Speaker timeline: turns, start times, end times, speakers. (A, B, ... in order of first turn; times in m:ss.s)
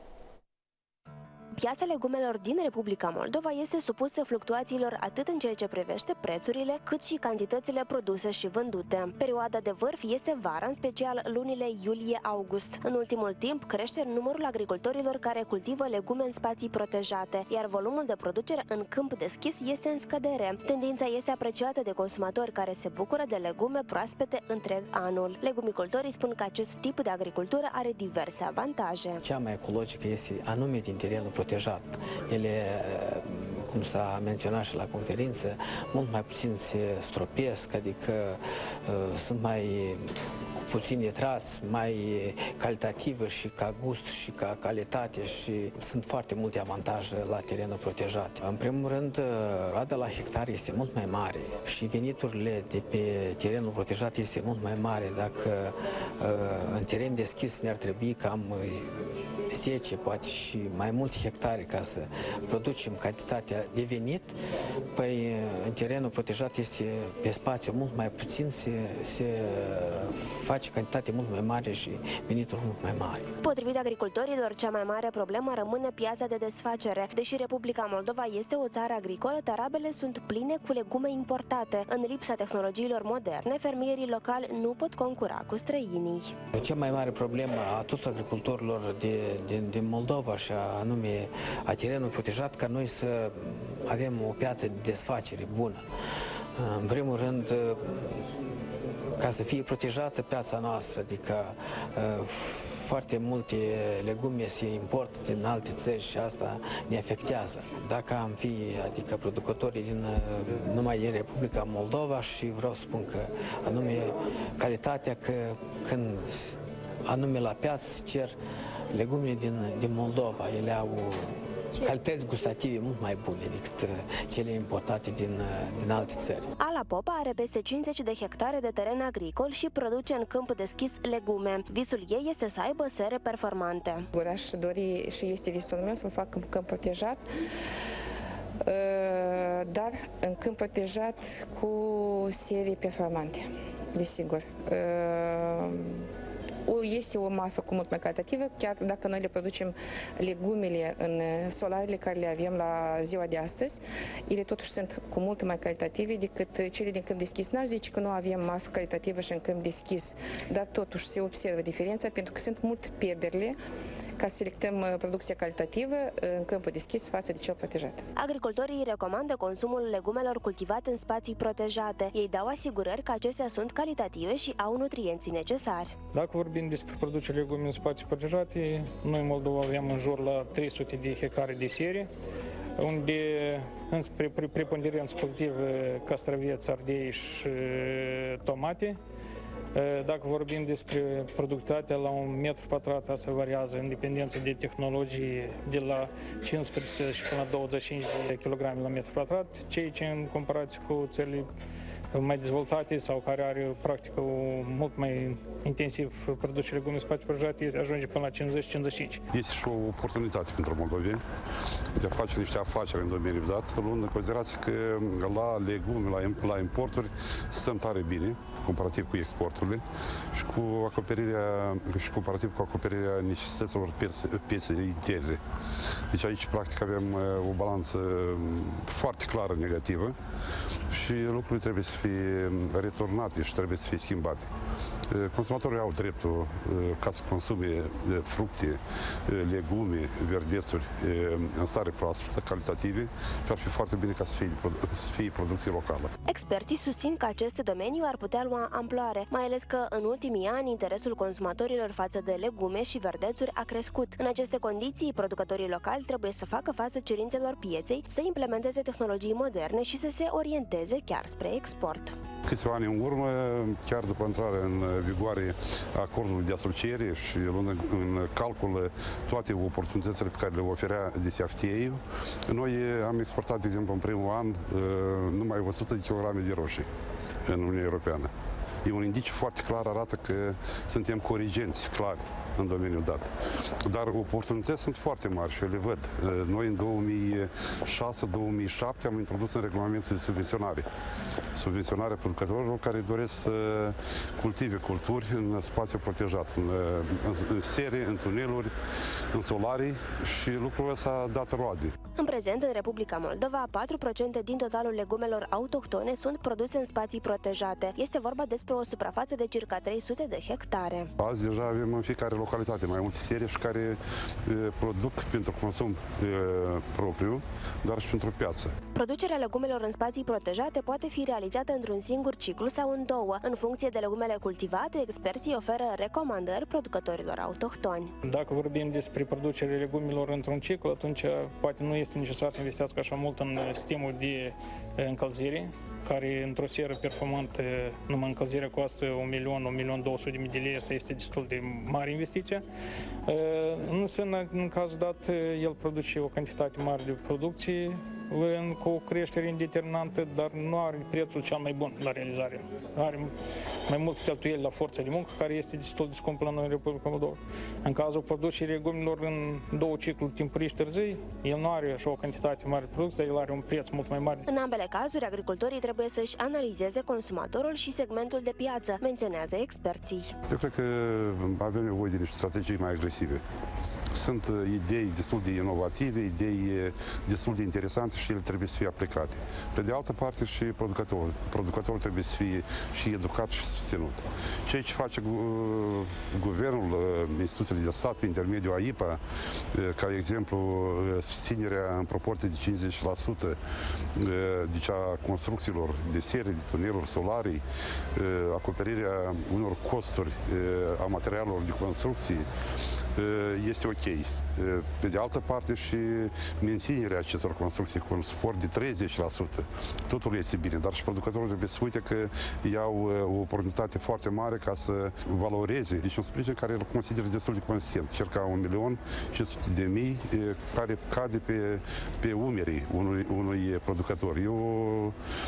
0:01.6-0:29.2 A
0:29.2-0:58.9 B
0:59.5-1:04.4 B
1:04.9-1:13.3 B
1:13.4-1:26.4 A
1:26.6-1:35.9 B
1:36.6-1:38.5 B
1:39.2-1:58.4 B
1:58.9-2:06.5 B
2:06.6-2:14.1 A
2:14.2-2:17.3 C
2:18.6-2:26.1 C
2:26.7-2:43.6 C
2:44.2-2:48.1 C
2:48.2-2:56.0 A
2:56.1-3:02.1 D
3:02.8-3:09.0 D
3:09.7-3:21.5 D
3:22.1-3:29.2 D
3:29.3-3:31.2 E
3:32.0-3:45.4 E
3:46.1-3:50.2 E
3:50.9-3:54.5 E
3:55.1-4:06.1 E
4:06.3-4:22.2 A
4:22.5-4:36.9 E
4:37.4-4:38.3 E
4:38.8-4:50.9 E
4:51.5-4:58.7 E
4:59.3-5:02.0 E
5:02.2-5:11.1 A
5:11.2-5:18.8 E
5:18.9-5:28.1 A
5:28.2-5:42.6 D
5:43.3-5:53.4 D
5:53.9-6:04.5 D
6:04.5-6:10.3 A
6:10.5-6:13.4 E
6:14.1-6:29.2 E
6:29.7-6:33.6 E
6:34.2-6:37.6 E
6:38.2-6:42.5 E
6:43.2-7:05.2 E